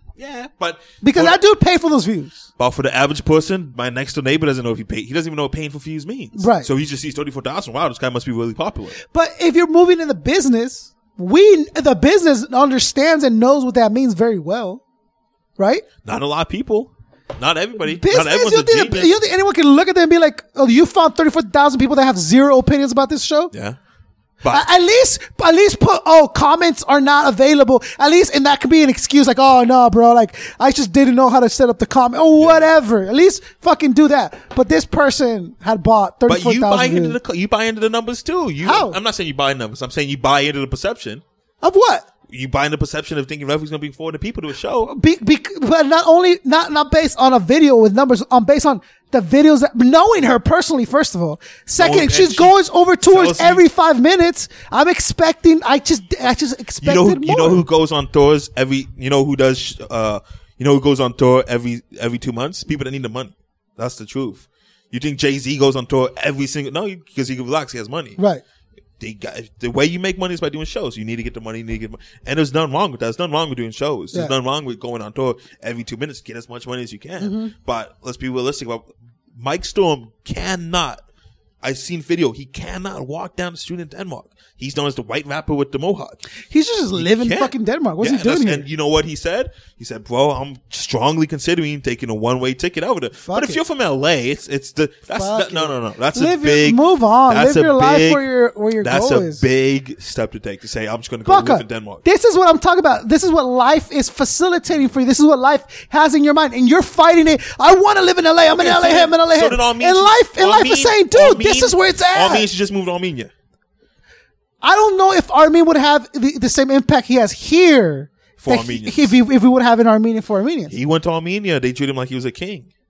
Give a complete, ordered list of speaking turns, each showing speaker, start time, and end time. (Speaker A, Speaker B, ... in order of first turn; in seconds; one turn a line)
Speaker A: 0.2-1.4
Speaker B: 1.0-2.4
Speaker A: 2.6-9.0
Speaker B: 6.3-6.7
Speaker B: 9.0-14.8
Speaker B: 15.6-15.8
Speaker A: 16.0-19.1
Speaker B: 17.8-23.5
Speaker A: 23.5-23.8
Speaker B: 24.5-37.2
Speaker A: 32.4-32.7
Speaker A: 36.3-41.2
Speaker B: 38.6-39.0
Speaker B: 41.6-42.0
Speaker A: 42.3-44.9
Speaker B: 44.9-57.6
Speaker A: 51.8-53.6
Speaker A: 56.8-68.2
Speaker B: 68.2-68.4
Speaker A: 69.0-81.0
Speaker B: 77.2-77.5
Speaker A: 81.6-86.2
Speaker B: 86.5-88.7
Speaker A: 86.9-98.2
Speaker B: 93.2-93.6
Speaker B: 95.2-99.4
Speaker A: 98.8-102.0
Speaker B: 101.2-112.5
Speaker A: 108.5-113.3
Speaker B: 114.6-120.7
Speaker A: 118.4-119.1
Speaker A: 120.7-122.7